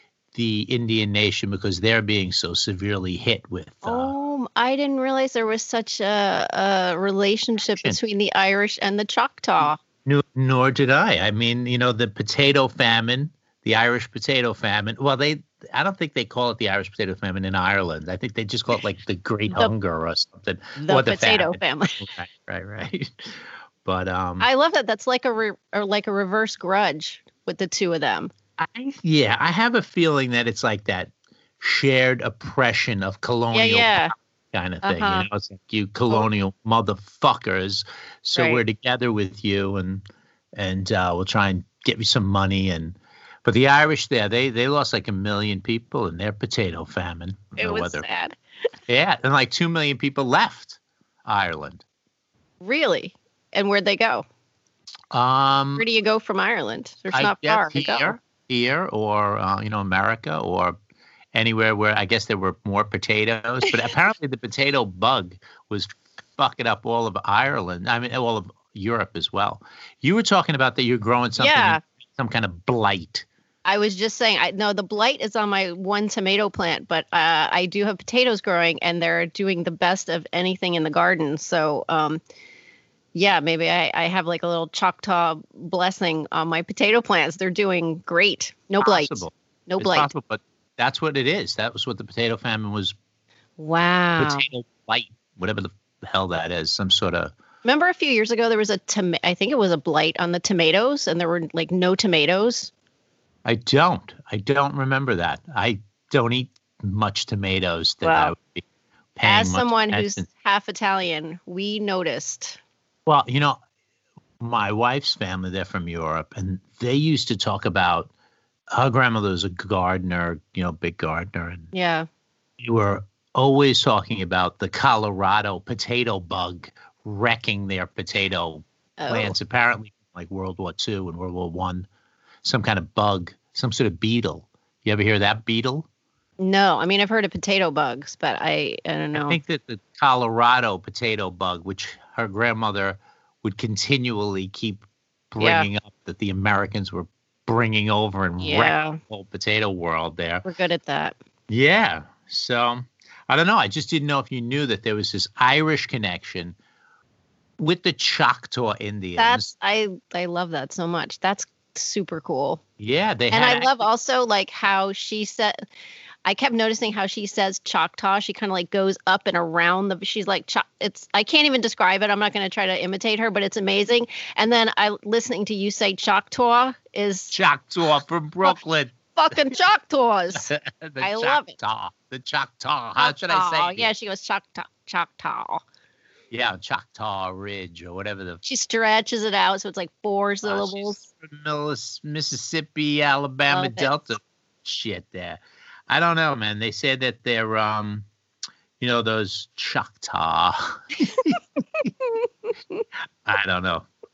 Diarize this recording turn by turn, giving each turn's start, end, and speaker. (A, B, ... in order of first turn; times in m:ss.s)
0:00.3-0:04.1 A
0:03.8-0:09.8 B
0:07.7-0:08.0 A
0:09.6-0:24.5 A
0:20.8-0:22.0 B
0:24.4-0:28.3 B
0:28.6-0:40.0 A
0:33.5-0:34.1 B
0:34.8-0:35.3 B
0:38.3-0:38.6 B
0:40.6-0:48.0 A
0:47.6-0:48.4 B
0:48.9-0:51.8 A
0:52.6-0:54.2 B
0:55.1-0:55.8 A
0:55.8-0:58.2 B
0:57.1-1:00.8 A
1:01.3-1:13.2 A
1:11.4-1:11.8 B
1:13.6-1:22.2 B
1:23.1-1:30.1 B
1:28.8-1:32.9 A
1:33.6-1:34.4 B
1:34.2-1:37.3 A
1:37.6-1:42.7 B
1:43.4-1:48.6 A
1:48.0-1:48.3 B
1:49.2-1:50.2 A
1:49.2-1:52.6 B
1:53.0-1:53.6 A
1:54.4-1:58.1 A
1:58.7-2:01.7 A
2:01.7-2:02.1 B
2:02.6-2:11.9 A
2:09.0-2:09.4 B
2:12.4-2:15.8 A
2:16.4-2:19.4 B
2:19.1-2:30.4 A
2:25.4-2:25.7 B
2:28.4-2:29.0 B
2:30.4-2:31.2 B
2:31.5-2:36.6 A
2:37.6-2:39.5 A
2:39.2-2:42.6 B
2:42.8-2:43.7 A
2:43.3-2:45.6 B
2:46.2-2:57.3 B
2:57.3-2:58.9 A
2:59.1-3:01.6 B
3:00.3-3:03.9 A
3:03.0-3:05.6 B
3:06.3-3:08.4 A
3:08.4-3:11.0 B
3:10.4-3:18.1 A
3:13.5-3:13.9 B
3:18.8-3:21.4 A
3:22.0-3:22.8 B
3:23.2-3:23.9 A